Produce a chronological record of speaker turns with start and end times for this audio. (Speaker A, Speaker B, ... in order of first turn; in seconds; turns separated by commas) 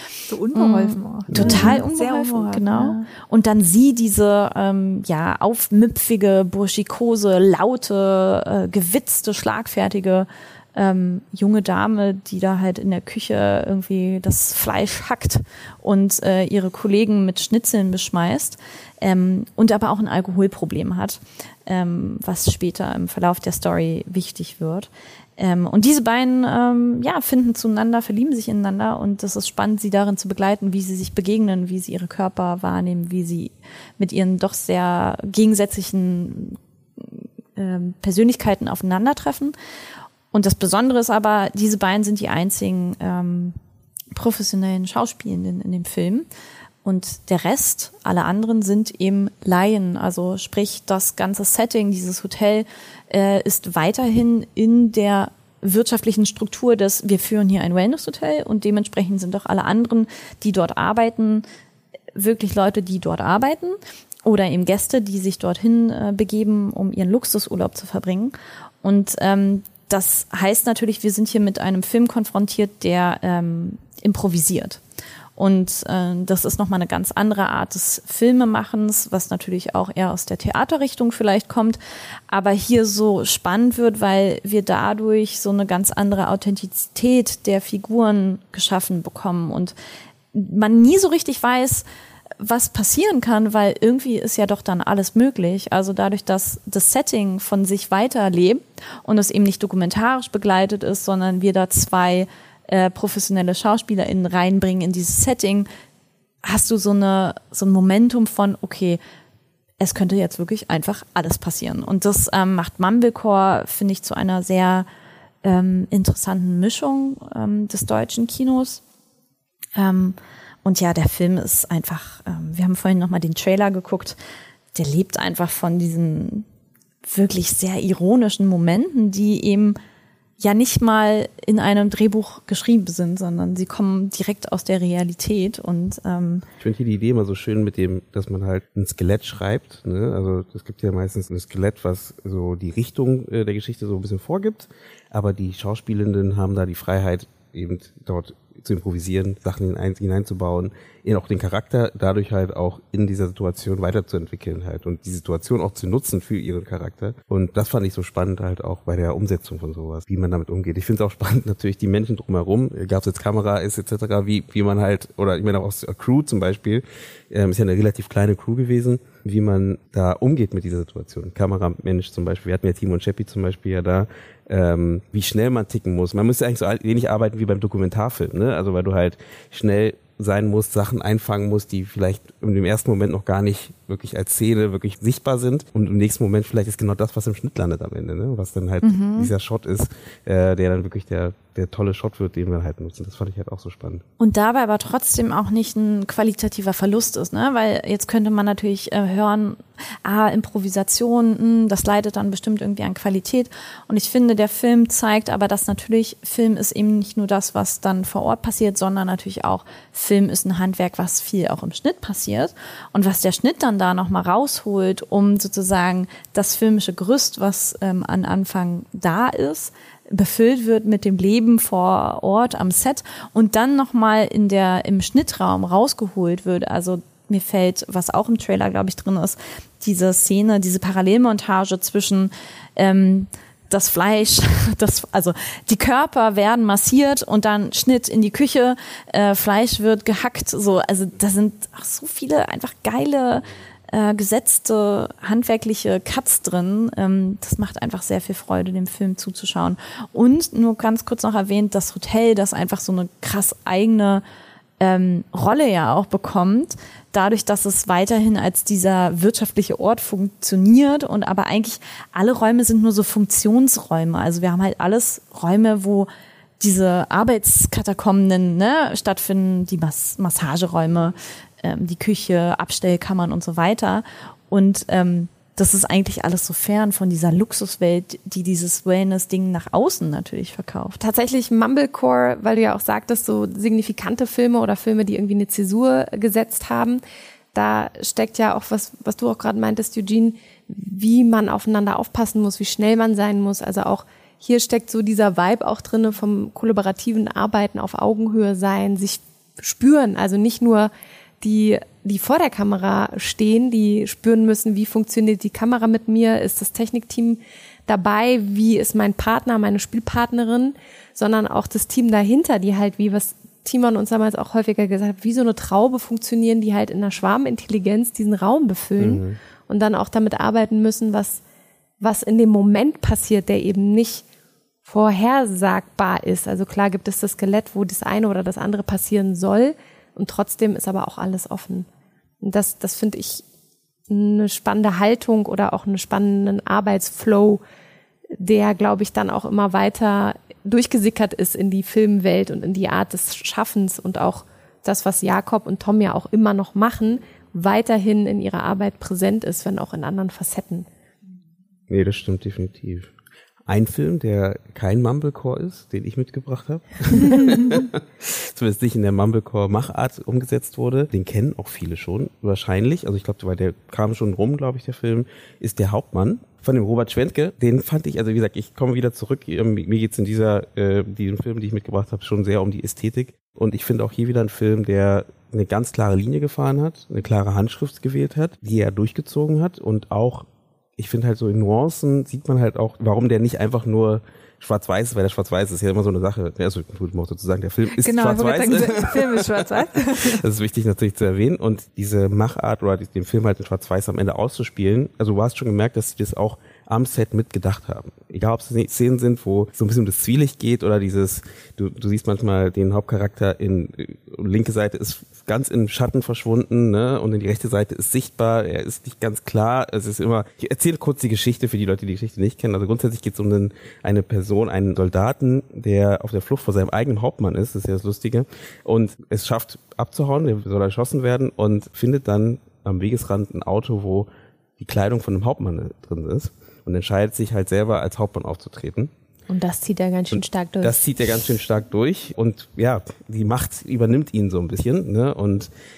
Speaker A: 0.3-3.1, Speaker B: 0.5-39.5, Speaker C: 1.3-1.7, Speaker B: 40.3-43.6, Speaker B: 44.1-46.3, Speaker B: 46.8-61.5, Speaker B: 62.1-74.8, Speaker B: 75.4-89.8, Speaker B: 90.3-91.9, Speaker B: 92.4-105.7, Speaker B: 106.4-109.0, Speaker B: 109.8-114.9, Speaker B: 115.4-118.8, Speaker B: 119.8-124.2, Speaker B: 124.8-126.5, Speaker B: 127.0-129.8, Speaker B: 130.4-136.5, Speaker C: 136.6-194.0, Speaker B: 188.8-189.3, Speaker B: 194.2-254.2, Speaker B: 254.8-266.1, Speaker B: 266.6-281.0, Speaker D: 281.0-287.0, Speaker D: 287.5-321.4, Speaker C: 319.0-319.4, Speaker D: 322.0-324.2, Speaker D: 324.9-331.9, Speaker D: 332.4-333.4, Speaker D: 334.1-337.6, Speaker D: 338.4-350.9, Speaker C: 351.9-353.1, Speaker C: 353.7-380.5, Speaker A: 357.2-357.7, Speaker C: 381.0-424.3, Speaker A: 388.0-390.4, Speaker C: 424.8-429.1, Speaker D: 429.5-431.0, Speaker C: 430.3-435.7